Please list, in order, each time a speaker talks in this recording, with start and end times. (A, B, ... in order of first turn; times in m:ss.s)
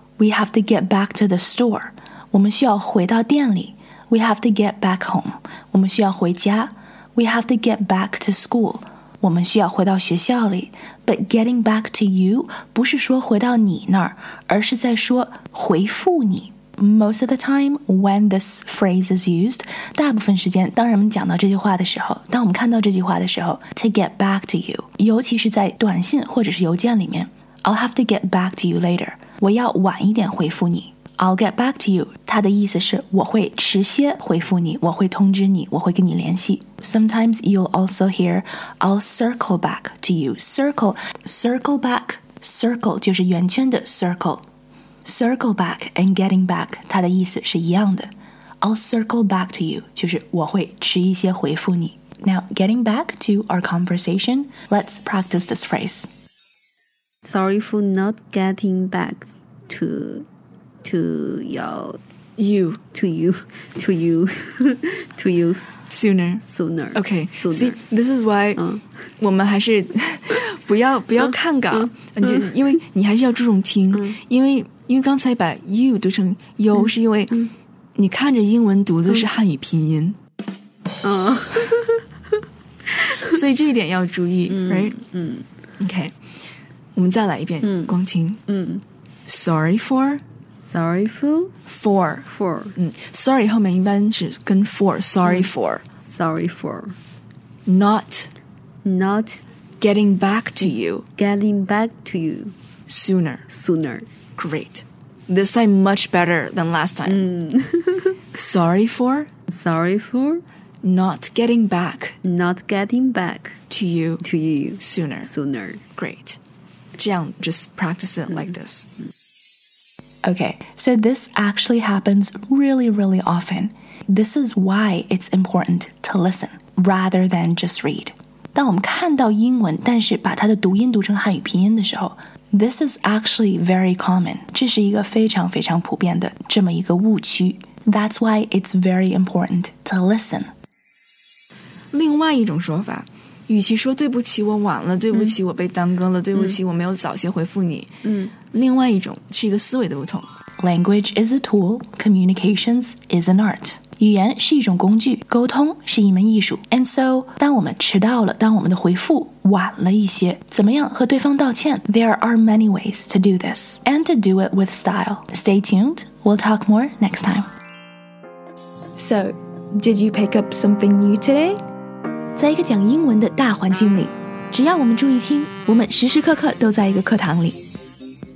0:00.2-0:44.4 A
0:45.0-0:48.1 A
0:48.6-0:56.1 A
0:57.2-1:00.3 B
1:00.8-1:02.0 B
1:02.4-1:02.8 C
1:02.9-1:05.7 B
1:05.9-1:06.4 C
1:06.4-1:07.8 B
1:07.0-1:08.6 C
1:08.6-1:08.8 B
1:09.2-1:17.4 C
1:11.7-1:12.4 B
1:13.9-1:14.2 B
1:18.0-1:20.2 C
1:21.0-1:22.0 B
1:23.0-1:23.3 B
1:23.2-1:25.0 C
1:24.5-1:25.5 B
1:25.8-1:26.1 C
1:27.0-1:28.4 C
1:27.6-1:28.0 B
1:28.5-1:28.8 B
1:29.3-1:30.2 C
1:30.6-1:31.5 B
1:31.7-1:35.8 C
1:32.3-1:32.8 B
1:36.0-1:37.0 B
1:37.7-1:38.3 C
1:38.8-1:39.4 B
1:39.8-1:41.1 C
1:41.2-1:42.5 B
1:42.9-1:43.4 C
1:43.5-1:44.1 B
1:44.4-1:47.3 C
1:47.1-1:48.2 B
1:48.3-1:49.3 C
1:49.5-1:50.4 B
1:50.8-1:52.2 C
1:52.2-1:53.6 B
1:53.7-1:54.2 C
1:54.2-1:55.8 B
1:54.8-1:55.3 C
1:56.0-1:56.4 C
1:57.0-1:58.9 C
2:00.2-2:20.5 A
2:21.9-2:27.9 C
2:28.0-2:28.3 B
2:28.5-2:30.3 C
2:30.6-2:47.5 A
2:49.0-2:51.6 A
2:52.4-2:57.6 A